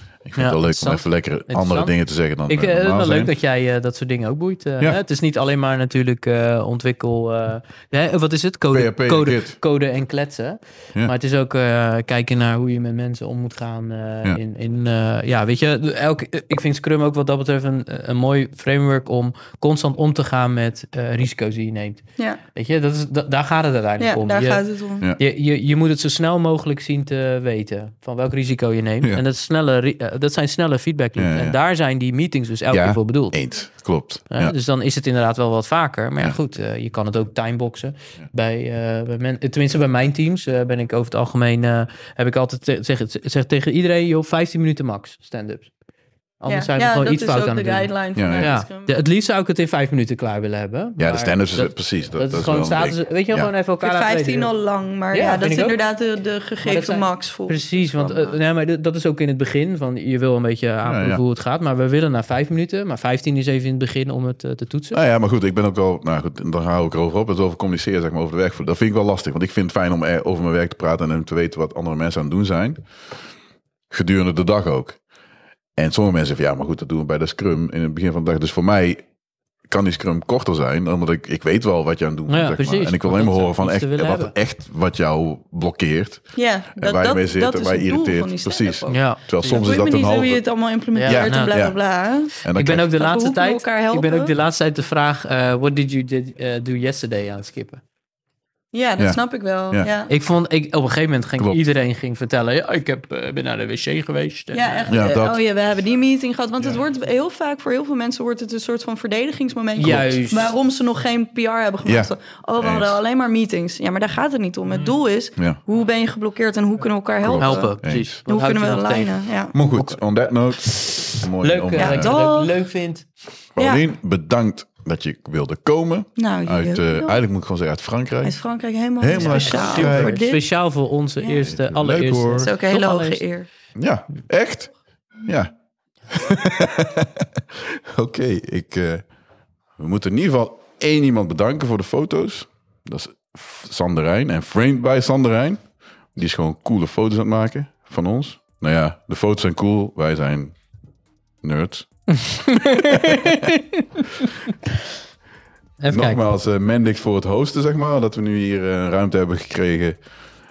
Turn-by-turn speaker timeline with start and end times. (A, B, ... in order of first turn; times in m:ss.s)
0:00.3-0:03.3 A
0:00.4-0:02.0 B
0:02.5-0:22.0 B
0:08.7-0:09.6 A
0:22.6-0:24.6 B
0:24.0-0:25.0 C
0:25.2-0:33.4 B
0:31.2-0:31.6 A
0:32.7-0:34.6 A
0:34.3-0:45.7 B
0:46.4-0:54.5 B
0:46.4-0:49.0 C
0:48.2-0:48.5 A
0:51.0-0:53.5 A
0:53.8-0:58.4 C
0:55.1-0:55.8 B
0:56.6-1:05.0 B
1:00.8-1:01.2 A
1:04.9-1:12.8 A
1:13.9-1:15.0 A
1:15.8-1:19.0 A
1:19.7-1:30.4 A
1:22.3-1:24.3 B
1:26.4-1:32.4 C
1:28.9-1:29.6 B
1:31.0-1:31.6 B
1:31.1-1:31.7 A
1:32.4-1:32.9 A
1:32.5-1:37.8 B
1:33.0-1:34.3 C
1:38.7-1:40.1 C
1:40.1-1:45.0 B
1:44.5-1:57.7 C
1:44.9-1:45.4 A
1:49.8-1:50.5 B
1:51.8-1:53.0 A
1:57.2-1:58.2 A
1:57.4-1:59.2 B
1:58.3-1:59.6 C
1:59.5-2:02.2 A
2:00.6-2:03.0 B
2:01.7-2:02.5 C
2:03.6-2:08.4 A
2:03.6-2:03.8 C
2:06.2-2:07.2 C
2:08.2-2:10.4 C
2:09.0-2:10.2 A
2:09.2-2:13.3 B
2:11.4-2:12.5 A
2:12.4-2:13.5 C
2:13.8-2:14.7 A
2:15.2-2:15.5 A
2:16.1-2:19.0 A
2:19.8-2:25.6 A
2:26.2-2:30.6 A
2:31.4-2:32.0 A
2:32.2-2:34.0 B
2:32.8-2:33.5 A
2:35.8-2:36.2 B
2:35.9-2:40.0 A